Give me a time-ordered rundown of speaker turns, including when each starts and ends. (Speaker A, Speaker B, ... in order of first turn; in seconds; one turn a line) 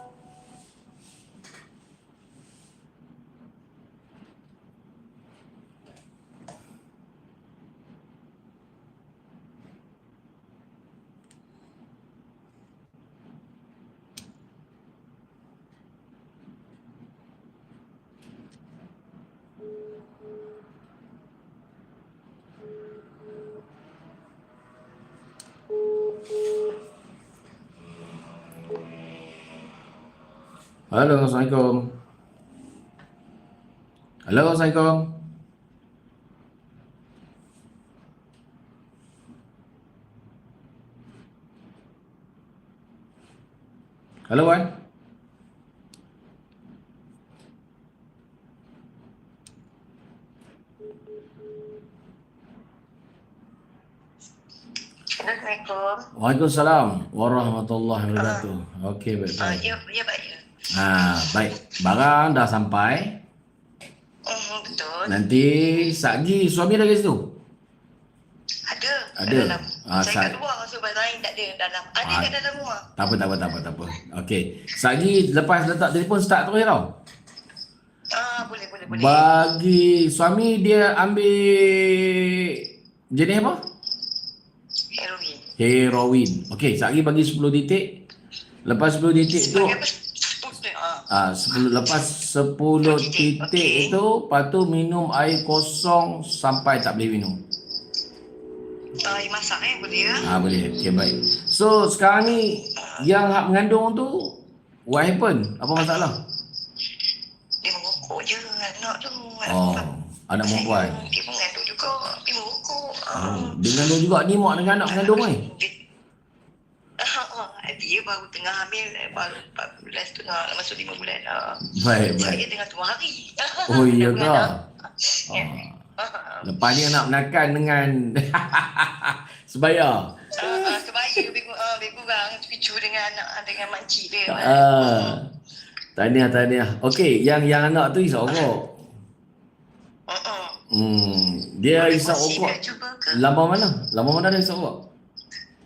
Speaker A: 30.9-31.9
Speaker A: 34.2-35.1
Speaker A: 44.3-44.7
Speaker B: 55.1-56.0
Speaker A: 56.1-59.7
Speaker B: 58.1-58.5
Speaker B: 59.4-60.4
Speaker A: 60.7-63.2
Speaker B: 64.3-65.2
Speaker A: 65.0-67.3
Speaker B: 68.7-72.8
Speaker A: 69.2-70.3
Speaker A: 72.0-72.3
Speaker A: 72.9-76.9
Speaker B: 78.1-79.3
Speaker A: 78.9-83.6
Speaker B: 84.9-85.4
Speaker A: 85.6-88.0
Speaker A: 88.6-89.8
Speaker B: 89.3-91.0
Speaker A: 91.1-97.4
Speaker B: 92.8-94.0
Speaker B: 99.0-100.4
Speaker A: 100.2-106.2
Speaker B: 102.8-103.0
Speaker B: 105.8-106.1
Speaker B: 107.6-109.9
Speaker A: 109.5-111.1
Speaker B: 110.4-113.6
Speaker A: 113.1-115.4
Speaker B: 114.7-115.7
Speaker B: 117.0-121.6
Speaker A: 121.6-122.4
Speaker B: 122.1-127.0
Speaker A: 123.7-124.6
Speaker A: 125.3-125.8
Speaker A: 126.4-130.7
Speaker B: 130.4-135.2
Speaker A: 134.3-135.3
Speaker A: 135.9-138.8
Speaker B: 140.1-140.5
Speaker A: 140.7-142.6
Speaker B: 141.7-143.2
Speaker A: 143.1-144.8